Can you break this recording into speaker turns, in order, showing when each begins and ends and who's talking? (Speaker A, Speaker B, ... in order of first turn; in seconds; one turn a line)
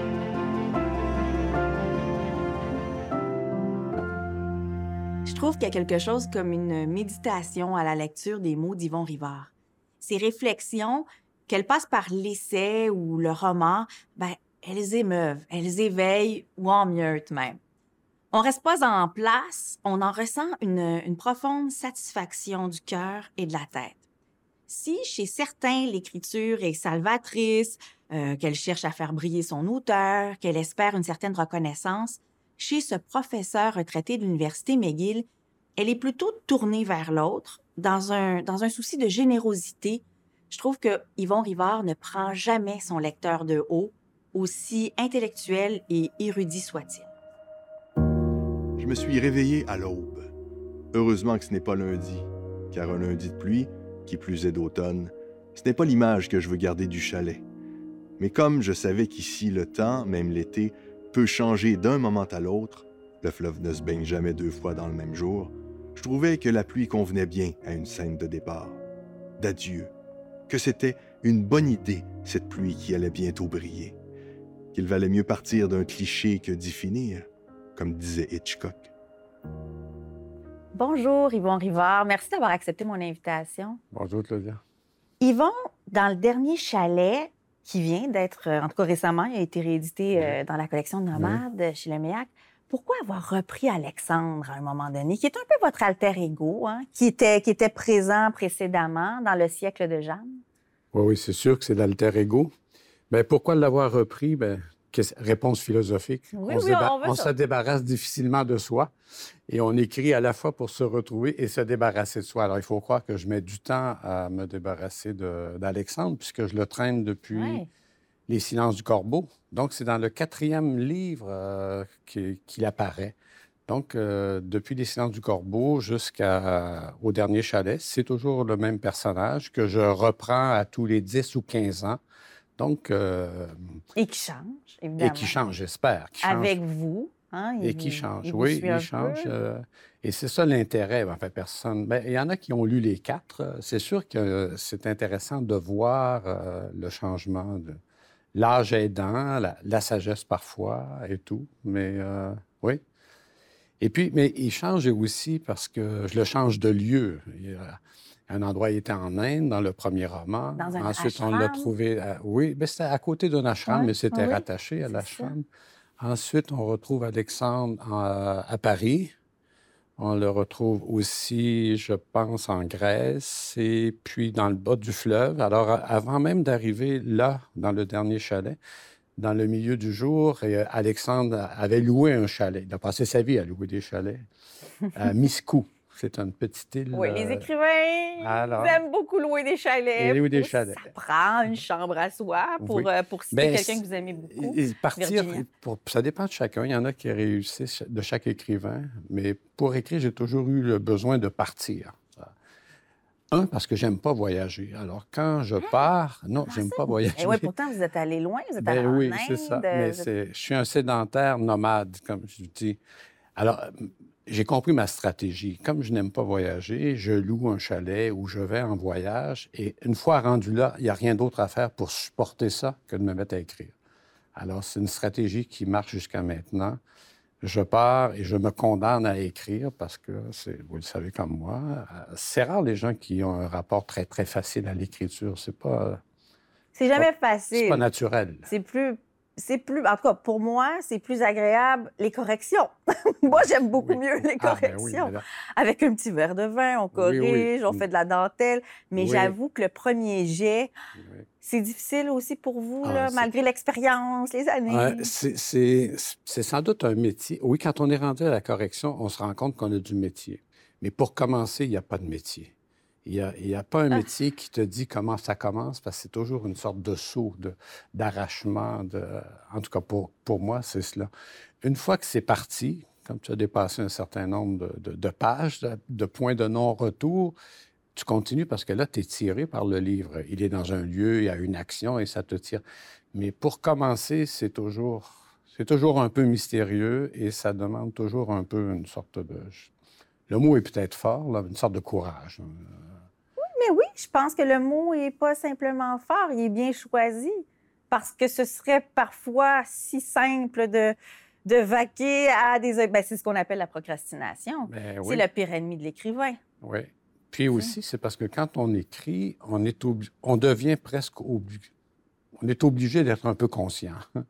Speaker A: 5.2-17.6
Speaker A: 18.3-24.0
Speaker A: 24.7-35.2
Speaker A: 35.8-47.1
Speaker B: 48.8-50.3
Speaker B: 50.9-57.4
Speaker B: 58.2-68.8
Speaker B: 69.4-69.9
Speaker B: 70.5-73.9
Speaker B: 74.7-78.9
Speaker A: 80.7-83.8
Speaker C: 83.9-84.6
Speaker A: 85.2-100.4
Speaker C: 91.1-91.4
Speaker C: 100.9-102.5
Speaker C: 103.1-108.9
Speaker A: 106.3-107.3
Speaker C: 109.5-117.6
Speaker A: 117.3-117.7
Speaker C: 118.3-123.2
Speaker C: 123.7-132.0
Speaker C: 132.6-133.6
Speaker A: 133.9-135.3
Speaker C: 135.0-136.6
Speaker A: 136.2-139.3
Speaker C: 137.6-147.8
Speaker C: 148.3-152.8
Speaker C: 153.8-165.4
Speaker A: 160.6-161.7
Speaker A: 163.7-165.3
Speaker C: 166.0-169.1
Speaker C: 170.0-178.6
Speaker C: 179.2-184.3
Speaker C: 184.9-187.5
Speaker A: 186.9-195.4
Speaker C: 188.2-188.8
Speaker C: 190.0-190.8
Speaker C: 192.6-202.3
Speaker C: 203.3-207.5
Speaker A: 206.5-210.1
Speaker C: 208.6-212.8
Speaker C: 213.3-213.7
Speaker C: 214.2-223.7
Speaker C: 224.3-226.8
Speaker C: 227.4-236.0
Speaker A: 236.7-237.8
Speaker C: 236.9-238.5
Speaker A: 238.4-250.7
Speaker C: 243.3-245.2
Speaker C: 246.9-247.8
Speaker C: 249.0-249.3
Speaker C: 250.9-251.3
Speaker A: 251.4-255.1
Speaker C: 252.8-253.3
Speaker C: 254.7-262.5
Speaker C: 263.0-271.1
Speaker C: 271.6-277.4
Speaker C: 277.9-289.7
Speaker C: 290.3-292.8
Speaker A: 293.6-306.4
Speaker C: 304.7-305.2
Speaker C: 306.6-311.6
Speaker C: 312.4-314.1